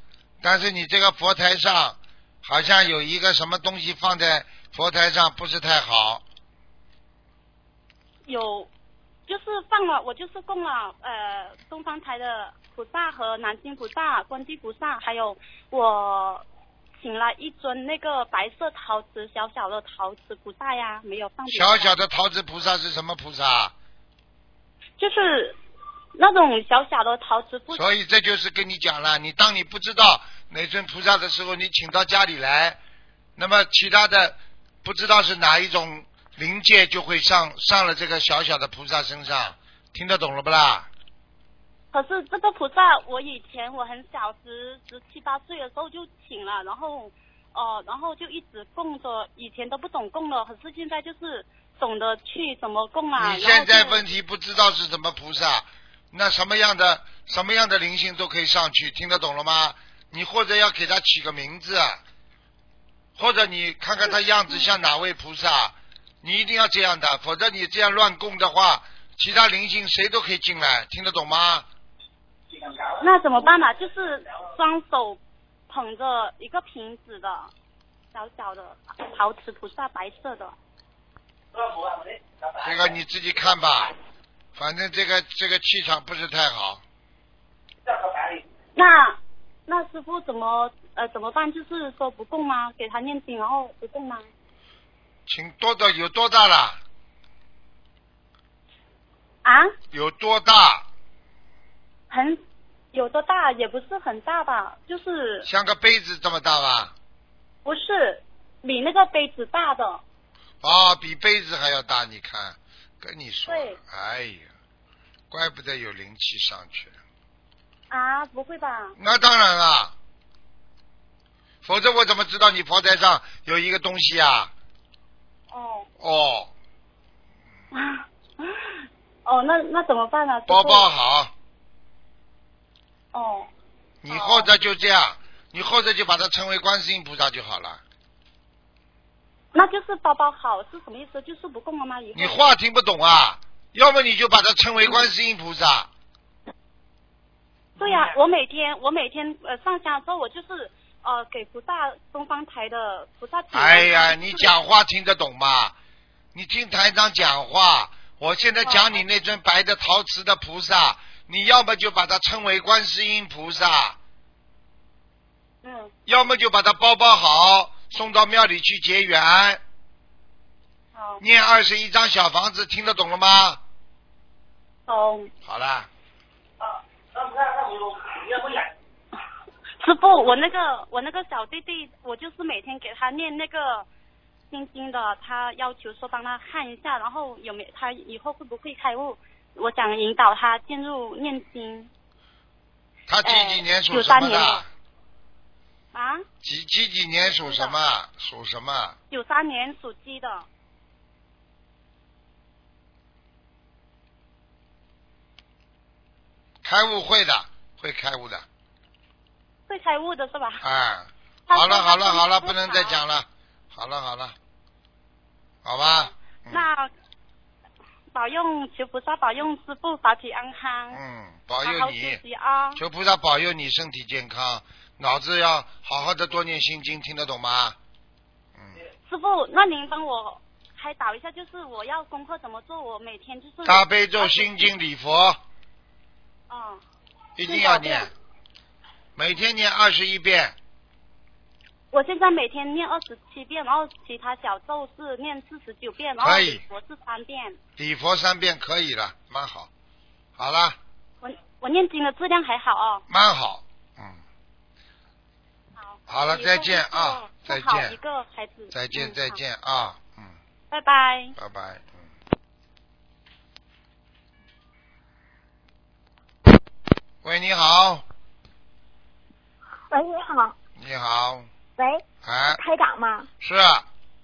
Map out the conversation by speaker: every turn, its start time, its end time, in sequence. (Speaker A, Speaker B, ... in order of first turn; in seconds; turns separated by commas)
Speaker A: 0.4-6.2, Speaker B: 8.3-8.7, Speaker B: 9.3-16.4, Speaker B: 17.0-21.9, Speaker A: 21.5-23.7, Speaker B: 25.0-25.6, Speaker B: 26.1-27.8, Speaker A: 27.7-32.8, Speaker A: 33.4-40.9, Speaker B: 41.9-54.0, Speaker A: 53.2-62.0, Speaker A: 63.1-71.7, Speaker B: 73.0-77.5, Speaker B: 78.1-80.5, Speaker A: 82.6-83.9, Speaker A: 84.5-86.8, Speaker B: 88.8-94.3, Speaker A: 95.3-96.8, Speaker B: 99.4-99.7, Speaker A: 99.9-100.8, Speaker B: 102.1-102.4, Speaker B: 102.9-105.5, Speaker A: 105.4-106.9, Speaker B: 107.6-110.0, Speaker A: 110.6-114.5, Speaker B: 113.5-113.8, Speaker A: 115.3-116.9, Speaker B: 117.9-119.0, Speaker A: 119.0-119.9, Speaker A: 121.6-124.5, Speaker B: 125.5-125.9, Speaker A: 126.0-126.5, Speaker B: 127.7-130.9, Speaker A: 130.5-131.3, Speaker B: 133.1-133.5, Speaker A: 134.0-137.8, Speaker B: 134.1-134.5, Speaker B: 139.5-142.4, Speaker A: 142.1-145.9, Speaker B: 147.8-154.5, Speaker A: 153.5-155.7, Speaker A: 156.3-164.0, Speaker B: 158.6-159.0, Speaker B: 165.6-165.9, Speaker A: 166.1-169.6, Speaker B: 170.9-171.2, Speaker A: 171.2-173.6, Speaker B: 174.9-175.3, Speaker A: 175.4-175.9, Speaker B: 179.8-183.8, Speaker B: 184.5-191.9, Speaker A: 193.1-194.7, Speaker B: 193.2-194.7, Speaker B: 195.9-196.2, Speaker A: 196.4-199.0, Speaker B: 197.2-197.7, Speaker B: 199.1-200.4, Speaker A: 206.6-208.4, Speaker B: 209.7-210.6, Speaker A: 210.6-214.3, Speaker B: 211.5-213.0, Speaker A: 215.6-216.7, Speaker B: 215.8-216.9, Speaker B: 218.1-221.0, Speaker A: 220.9-222.2, Speaker B: 221.6-222.8, Speaker A: 222.8-227.8, Speaker B: 229.1-234.7, Speaker A: 233.6-235.4, Speaker B: 236.5-236.8, Speaker A: 237.4-238.1, Speaker B: 237.4-238.1, Speaker A: 239.2-240.6, Speaker B: 241.9-247.6, Speaker A: 246.2-246.6, Speaker A: 247.8-249.7, Speaker A: 250.4-250.8, Speaker B: 251.2-253.0, Speaker A: 253.1-254.2, Speaker B: 255.8-259.4, Speaker A: 256.1-257.9, Speaker A: 258.7-260.3, Speaker B: 260.7-261.3, Speaker A: 261.4-262.1, Speaker A: 267.2-268.0, Speaker C: 269.9-270.6, Speaker A: 270.8-271.5, Speaker C: 271.8-273.3, Speaker A: 272.2-272.6, Speaker A: 273.4-273.9